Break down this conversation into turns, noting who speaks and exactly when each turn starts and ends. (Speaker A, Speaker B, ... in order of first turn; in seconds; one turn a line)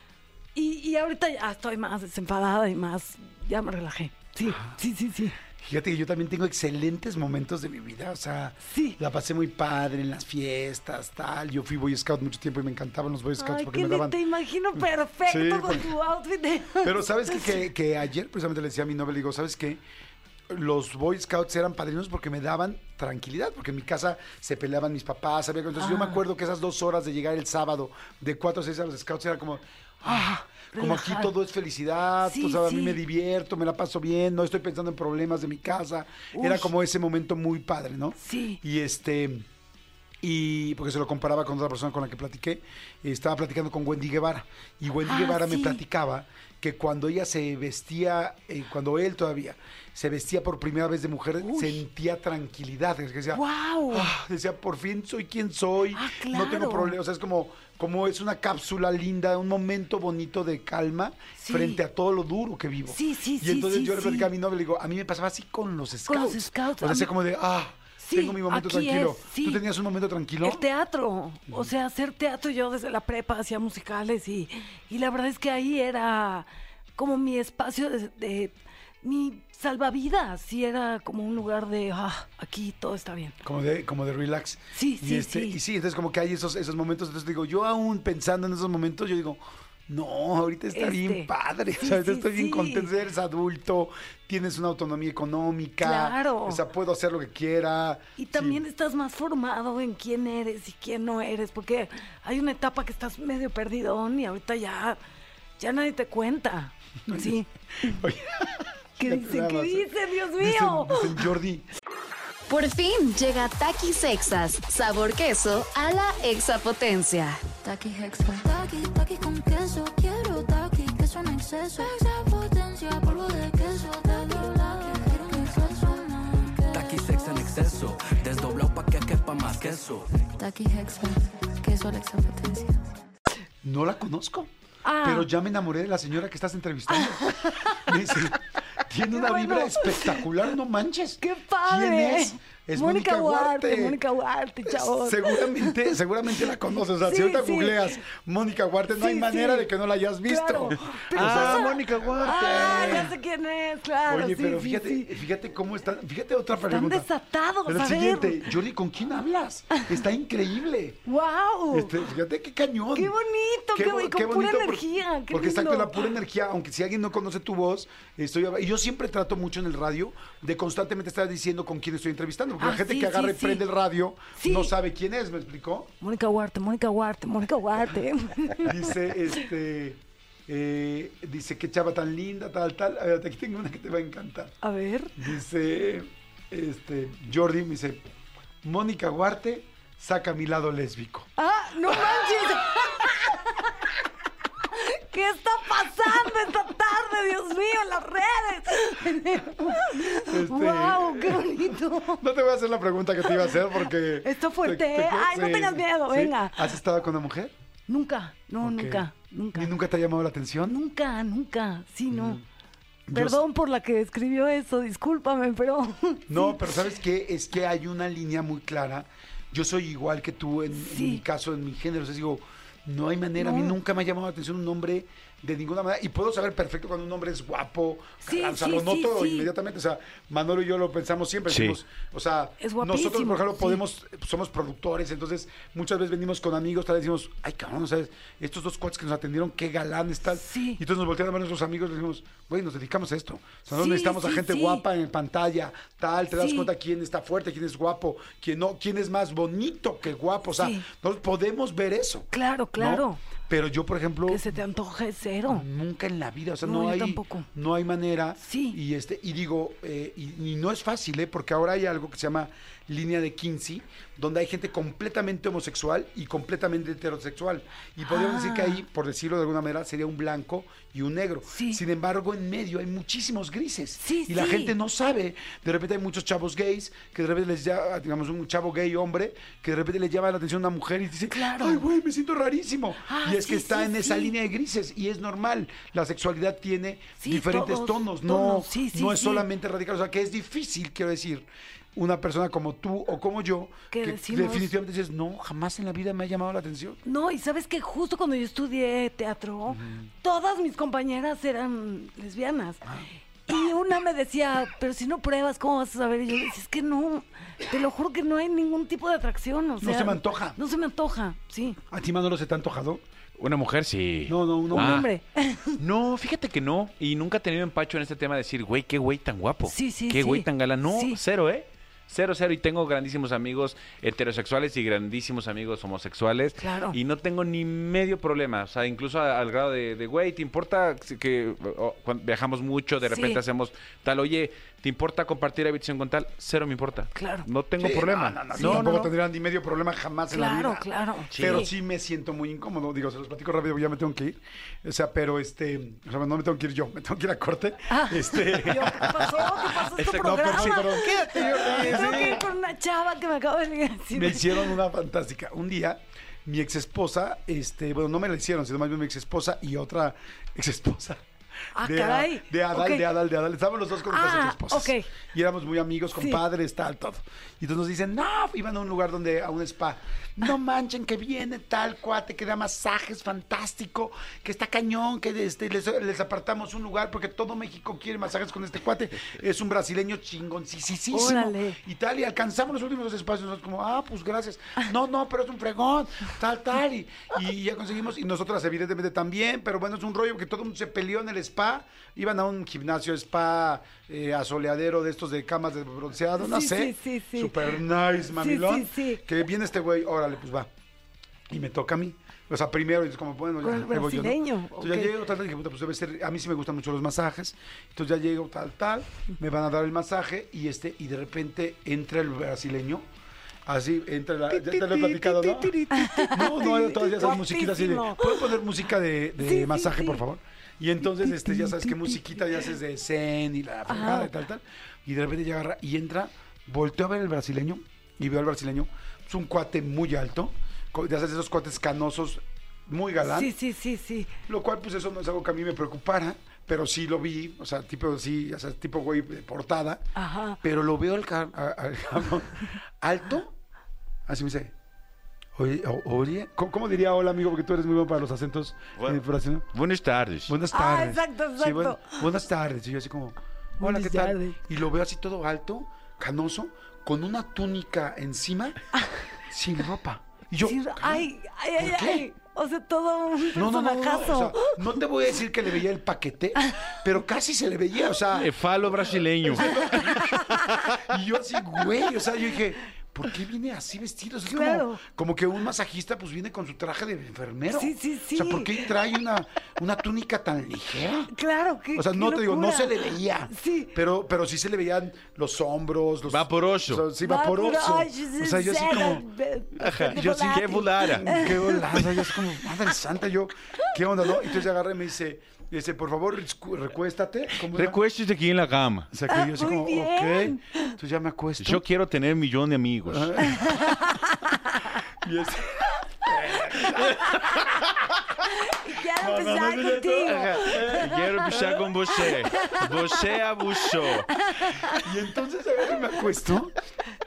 Speaker A: 0.6-5.4
Speaker B: 4.5-4.7
Speaker B: 5.6-14.2
Speaker A: 8.6-9.0
Speaker A: 13.4-17.6
Speaker B: 14.8-15.9
Speaker B: 16.8-19.8
Speaker B: 20.5-39.5
Speaker A: 25.8-26.2
Speaker A: 30.0-31.3
Speaker A: 32.2-33.0
Speaker A: 36.3-36.7
Speaker A: 38.2-38.6
Speaker B: 40.2-70.6
Speaker A: 45.0-45.8
Speaker A: 51.4-51.8
Speaker A: 53.3-54.1
Speaker A: 55.9-57.0
Speaker A: 61.4-61.8
Speaker A: 62.9-64.3
Speaker A: 66.1-67.1
Speaker A: 68.0-69.6
Speaker A: 70.4-83.4
Speaker B: 83.4-98.6
Speaker A: 84.7-85.6
Speaker A: 90.7-92.9
Speaker A: 95.8-96.6
Speaker A: 98.2-105.0
Speaker A: 105.6-108.0
Speaker B: 107.1-111.7
Speaker A: 109.0-111.2
Speaker C: 112.5-117.5
Speaker D: 117.6-126.8
Speaker E: 126.7-130.3
Speaker D: 130.4-132.8
Speaker B: 133.6-144.0
Speaker A: 134.8-135.3
Speaker A: 136.9-137.9
Speaker A: 139.1-140.3
Speaker A: 141.2-146.0
Speaker B: 144.7-153.1
Speaker A: 147.0-147.9
Speaker A: 148.9-149.7
Speaker A: 150.2-155.2
Speaker F: 151.1-153.2
Speaker B: 154.1-157.1
Speaker A: 156.5-158.5
Speaker B: 157.7-161.0
Speaker A: 161.1-162.0
Speaker B: 161.7-163.2
Speaker A: 162.9-166.1
Speaker B: 163.7-175.9
Speaker A: 172.6-173.6
Speaker A: 174.4-174.7
Speaker A: 176.0-179.0
Speaker B: 178.6-184.6
Speaker A: 184.6-185.2
Speaker B: 185.2-188.0
Speaker B: 188.6-191.3
Speaker A: 191.4-193.9
Speaker B: 191.9-192.4
Speaker A: 194.6-202.2
Speaker B: 200.3-201.5
Speaker B: 202.2-207.6
Speaker A: 203.3-203.6
Speaker A: 204.2-206.8
Speaker A: 207.9-209.7
Speaker B: 208.6-210.8
Speaker A: 210.7-212.4
Speaker B: 212.1-212.4
Speaker B: 213.1-213.4
Speaker A: 213.1-216.8
Speaker B: 216.3-254.6
Speaker A: 220.7-221.2
Speaker A: 223.4-223.8
Speaker A: 228.2-229.5
Speaker F: 231.5-231.8
Speaker A: 232.6-233.8
Speaker A: 240.3-240.8
Speaker A: 243.7-244.8
Speaker A: 246.3-246.7
Speaker A: 250.6-250.8
Speaker A: 252.3-253.2
Speaker A: 254.3-255.7
Speaker B: 255.5-297.0
Speaker A: 256.6-257.5
Speaker A: 258.4-258.8
Speaker A: 268.1-268.8
Speaker A: 271.5-271.8
Speaker A: 274.0-274.8
Speaker A: 281.3-281.8
Speaker A: 283.1-284.3
Speaker A: 287.2-289.5
Speaker A: 293.9-294.7
Speaker A: 297.1-302.8
Speaker B: 299.7-300.1
Speaker A: 303.5-311.8
Speaker B: 309.8-310.6
Speaker B: 311.9-313.0
Speaker F: 313.4-315.1
Speaker B: 314.3-315.1
Speaker A: 314.7-315.8
Speaker F: 315.8-339.0
Speaker A: 319.7-321.2
Speaker A: 326.6-327.0
Speaker A: 333.1-333.4
Speaker A: 337.1-337.5
Speaker B: 337.8-349.4
Speaker A: 338.5-339.1
Speaker A: 340.3-341.7
Speaker F: 341.3-341.7
Speaker A: 347.9-354.8
Speaker F: 349.8-352.5
Speaker B: 350.1-352.4
Speaker B: 354.1-361.2
Speaker A: 361.8-363.1
Speaker B: 361.8-400.7
Speaker A: 364.1-365.1
Speaker A: 366.1-366.4
Speaker A: 381.1-381.8
Speaker A: 396.4-397.8
Speaker A: 398.3-399.2
Speaker B: 401.5-413.1
Speaker A: 403.6-405.1
Speaker B: 413.7-433.5
Speaker A: 414.5-418.5
Speaker A: 419.4-420.2
Speaker A: 421.1-422.6
Speaker A: 423.9-424.3
Speaker A: 433.2-434.3
Speaker B: 434.5-440.1
Speaker A: 440.2-440.6
Speaker B: 440.6-443.6
Speaker B: 444.3-444.7
Speaker B: 445.6-449.7
Speaker F: 449.0-450.5
Speaker B: 450.5-458.8
Speaker A: 450.7-452.2
Speaker A: 453.8-454.6
Speaker B: 459.4-462.3
Speaker A: 460.6-465.0
Speaker B: 463.5-481.3
Speaker F: 468.4-470.1
Speaker A: 469.6-470.6
Speaker A: 474.5-475.0
Speaker A: 477.7-478.9
Speaker A: 481.3-483.9
Speaker B: 481.9-489.2
Speaker F: 486.3-487.1
Speaker A: 487.2-492.0
Speaker F: 489.8-492.1
Speaker B: 489.8-498.0
Speaker F: 497.6-499.1
Speaker B: 499.1-501.9
Speaker A: 499.3-500.9
Speaker F: 501.6-503.4
Speaker B: 503.1-504.0
Speaker A: 503.4-505.0
Speaker B: 505.2-507.7
Speaker A: 508.4-511.6
Speaker B: 509.0-512.2
Speaker F: 510.3-514.3
Speaker A: 512.2-513.4
Speaker A: 514.3-515.1
Speaker B: 514.9-516.8